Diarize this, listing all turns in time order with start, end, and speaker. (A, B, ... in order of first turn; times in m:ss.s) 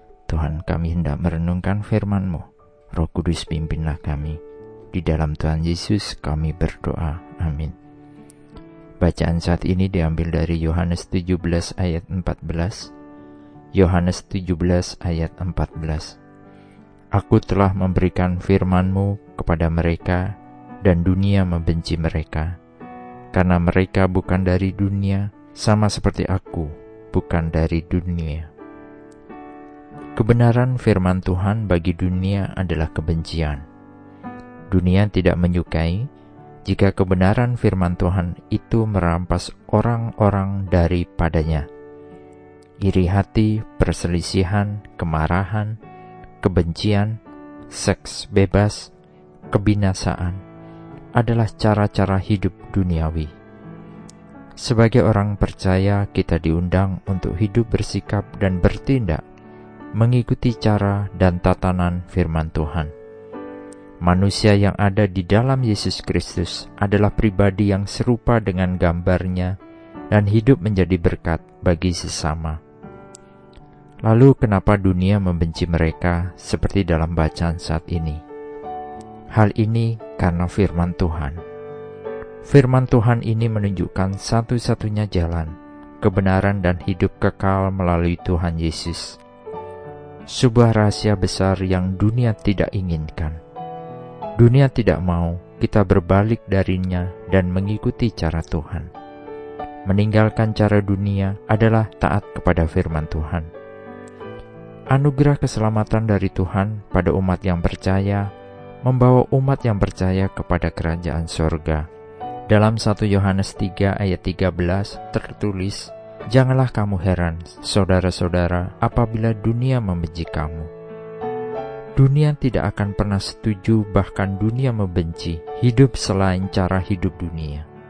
0:00.3-0:04.4 A
0:04.9-0:07.7 A
0:09.0-0:12.9 A
0:13.7-0:16.2 A
0:17.1-0:20.3 A
0:20.8-0:22.6 A
0:23.3-0:28.5 A
0:30.2-0:33.6 A
0:34.7-0:36.1 A
0:36.6-0:41.7 A
0:42.8-0:45.8 A
0:46.4-0:47.2 A
0:47.7-0:48.9 A
0:49.5-0:50.4 A
0:51.2-0:53.3 A
0:54.6-0:59.2 A
1:00.0-1:02.9 A
1:04.0-1:09.6 A
1:10.1-1:12.6 A
1:14.0-1:18.2 A
1:19.3-1:21.4 A
1:22.4-1:29.2 A
1:30.3-1:33.4 A
1:34.4-1:38.9 A
1:39.8-1:43.5 A
1:44.9-1:48.3 A
1:48.8-1:51.8 A
1:52.5-2:00.7 A
2:02.0-2:07.6 A